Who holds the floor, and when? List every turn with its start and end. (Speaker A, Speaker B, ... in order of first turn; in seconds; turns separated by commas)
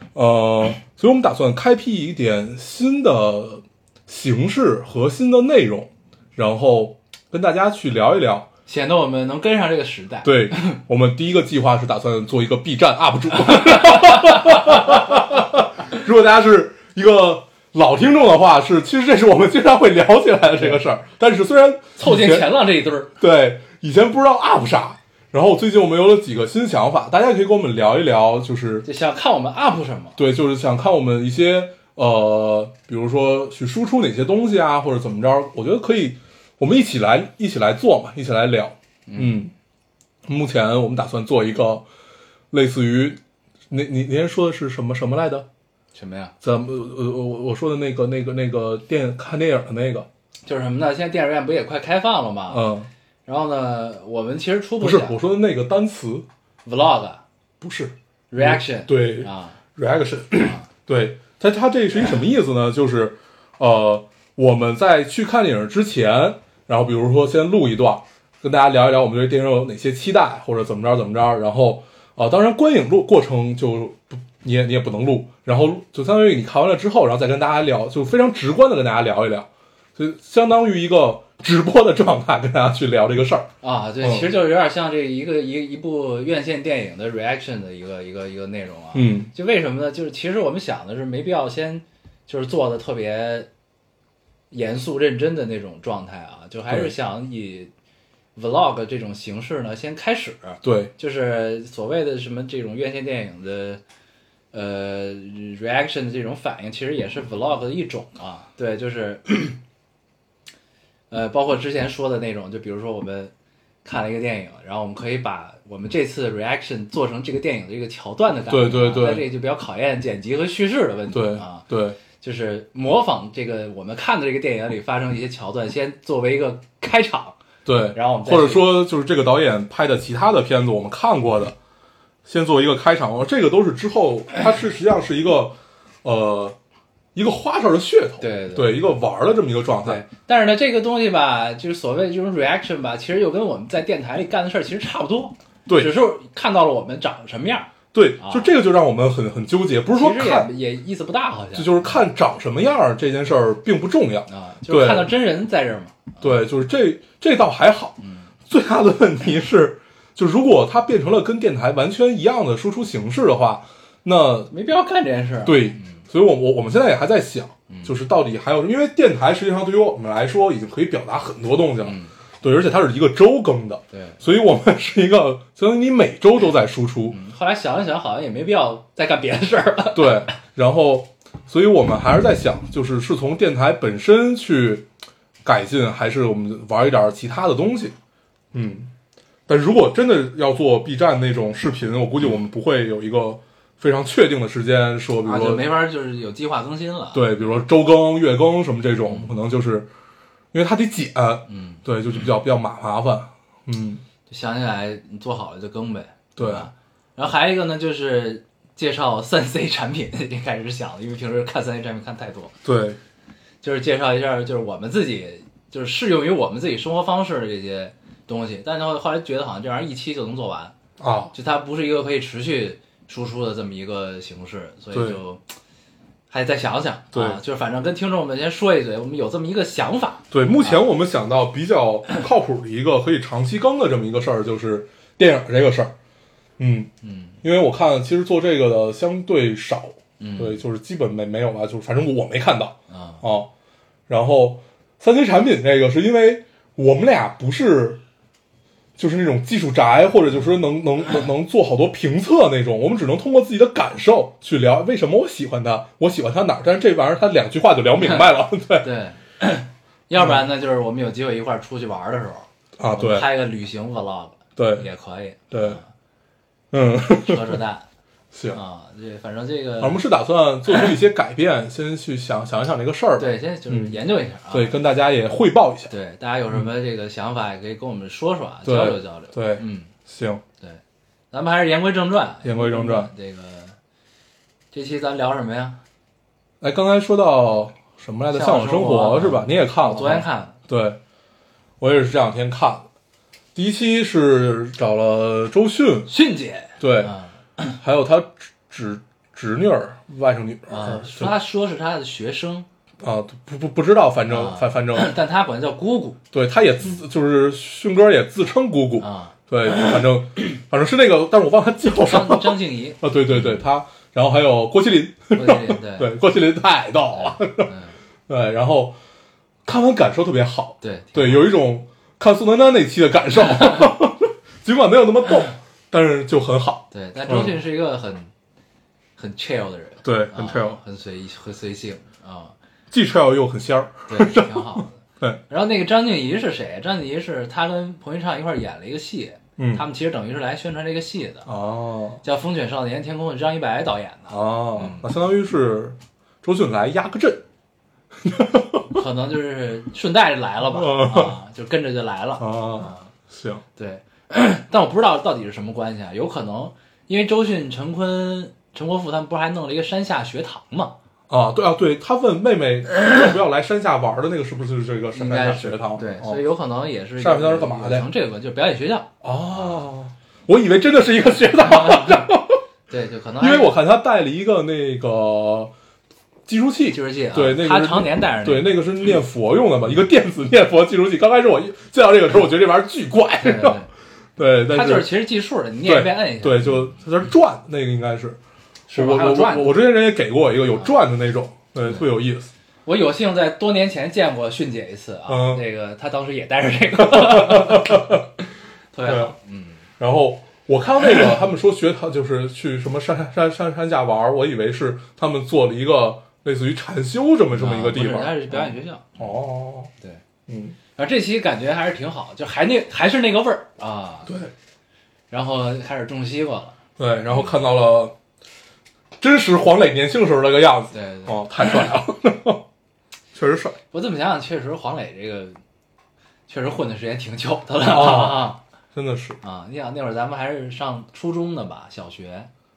Speaker A: 0.1-8.5, Speaker B: 8.7-10.8, Speaker A: 10.2-22.6, Speaker B: 13.7-14.6, Speaker B: 22.0-23.1, Speaker A: 23.2-28.9, Speaker B: 28.8-30.2, Speaker A: 30.1-39.5, Speaker B: 39.1-39.4, Speaker A: 40.2-41.9, Speaker A: 42.5-45.5, Speaker B: 45.9-46.3, Speaker A: 46.4-50.1, Speaker B: 50.5-52.7, Speaker A: 52.5-52.9, Speaker B: 53.2-55.2, Speaker A: 54.8-56.3, Speaker B: 56.6-57.2, Speaker A: 57.6-84.3, Speaker B: 58.3-59.6, Speaker B: 60.4-60.7, Speaker B: 83.6-93.5, Speaker A: 88.9-89.3, Speaker B: 94.5-97.7, Speaker B: 98.3-103.8, Speaker A: 100.6-100.9, Speaker B: 104.5-109.6, Speaker B: 111.1-113.3, Speaker B: 113.8-127.4, Speaker A: 118.5-119.2, Speaker A: 121.1-122.0, Speaker A: 127.7-131.6, Speaker B: 127.9-128.7, Speaker A: 132.2-136.6, Speaker A: 137.1-140.0, Speaker B: 138.2-138.9, Speaker B: 139.8-148.5, Speaker A: 145.7-145.9, Speaker A: 147.9-150.5, Speaker B: 149.9-152.0, Speaker A: 151.5-155.1, Speaker B: 154.3-156.3, Speaker A: 156.2-164.5, Speaker B: 158.0-158.3, Speaker B: 164.5-166.0, Speaker A: 165.4-177.2, Speaker B: 167.7-167.9, Speaker B: 171.8-172.1, Speaker B: 173.9-174.2, Speaker B: 177.1-180.3, Speaker A: 179.9-184.9, Speaker A: 185.4-187.9, Speaker A: 188.5-188.9, Speaker A: 189.5-195.7, Speaker B: 195.2-197.4, Speaker A: 197.1-199.9, Speaker A: 200.5-204.0, Speaker B: 201.5-201.8, Speaker B: 204.3-212.6, Speaker A: 206.4-206.7, Speaker A: 212.6-213.0, Speaker B: 213.6-220.7, Speaker A: 221.0-221.3, Speaker B: 221.3-225.4, Speaker A: 224.9-225.2, Speaker B: 226.3-230.8, Speaker A: 227.1-227.4, Speaker A: 230.3-235.9, Speaker A: 236.6-236.9, Speaker B: 237.0-237.3, Speaker A: 237.4-243.5, Speaker B: 240.2-240.6, Speaker B: 242.9-243.2, Speaker A: 244.1-248.0, Speaker A: 249.0-258.9, Speaker B: 258.0-258.3, Speaker B: 258.8-265.9, Speaker A: 262.8-263.3, Speaker A: 264.6-264.9, Speaker A: 265.5-265.8, Speaker A: 266.7-267.6, Speaker B: 267.1-267.9, Speaker A: 268.3-268.6, Speaker B: 268.5-270.0, Speaker A: 269.8-274.0, Speaker B: 273.2-274.8, Speaker A: 274.5-275.9, Speaker B: 275.9-279.9, Speaker A: 278.6-280.4, Speaker B: 280.6-283.8, Speaker A: 282.4-283.1, Speaker B: 284.7-285.8, Speaker A: 286.6-291.0, Speaker B: 288.3-290.6, Speaker A: 291.8-292.9, Speaker A: 293.5-296.1, Speaker B: 296.1-297.3, Speaker A: 296.8-297.1, Speaker A: 297.7-301.3, Speaker B: 300.7-302.7, Speaker A: 303.0-305.1, Speaker B: 304.3-306.2, Speaker A: 306.3-317.7, Speaker B: 309.0-309.9, Speaker B: 312.0-313.6, Speaker B: 315.3-316.1, Speaker B: 317.2-317.9, Speaker A: 318.3-319.0, Speaker A: 319.6-327.6, Speaker B: 320.8-321.5, Speaker B: 326.9-328.3, Speaker B: 329.2-332.5, Speaker A: 330.0-330.8, Speaker A: 332.9-335.4, Speaker B: 334.1-341.5, Speaker A: 339.6-339.8, Speaker A: 341.4-342.2, Speaker B: 342.2-345.1, Speaker A: 344.3-347.4, Speaker A: 348.2-349.0, Speaker B: 348.9-353.1, Speaker A: 350.6-351.4, Speaker A: 352.4-353.6, Speaker B: 353.8-360.9, Speaker A: 361.3-366.4, Speaker B: 365.1-369.8, Speaker A: 367.2-368.1, Speaker A: 369.2-372.6, Speaker B: 371.6-372.3, Speaker B: 372.9-373.8, Speaker A: 373.4-375.7, Speaker A: 376.5-383.8, Speaker B: 376.9-378.8, Speaker B: 383.4-383.9, Speaker A: 384.4-385.1, Speaker B: 384.7-386.9, Speaker A: 385.8-388.4, Speaker B: 388.9-389.8, Speaker A: 388.9-392.5, Speaker B: 392.9-398.2, Speaker A: 395.3-395.6, Speaker A: 397.0-398.2, Speaker B: 398.9-399.8, Speaker A: 399.0-399.3, Speaker A: 400.0-409.9, Speaker B: 407.5-409.3, Speaker A: 410.5-410.8, Speaker B: 410.9-414.3, Speaker A: 414.3-414.5, Speaker B: 415.3-416.7, Speaker A: 417.0-418.1, Speaker A: 419.2-422.6, Speaker B: 420.9-421.4, Speaker A: 423.3-423.8, Speaker B: 423.9-425.6, Speaker B: 426.5-428.6, Speaker A: 427.8-429.4, Speaker B: 429.4-432.5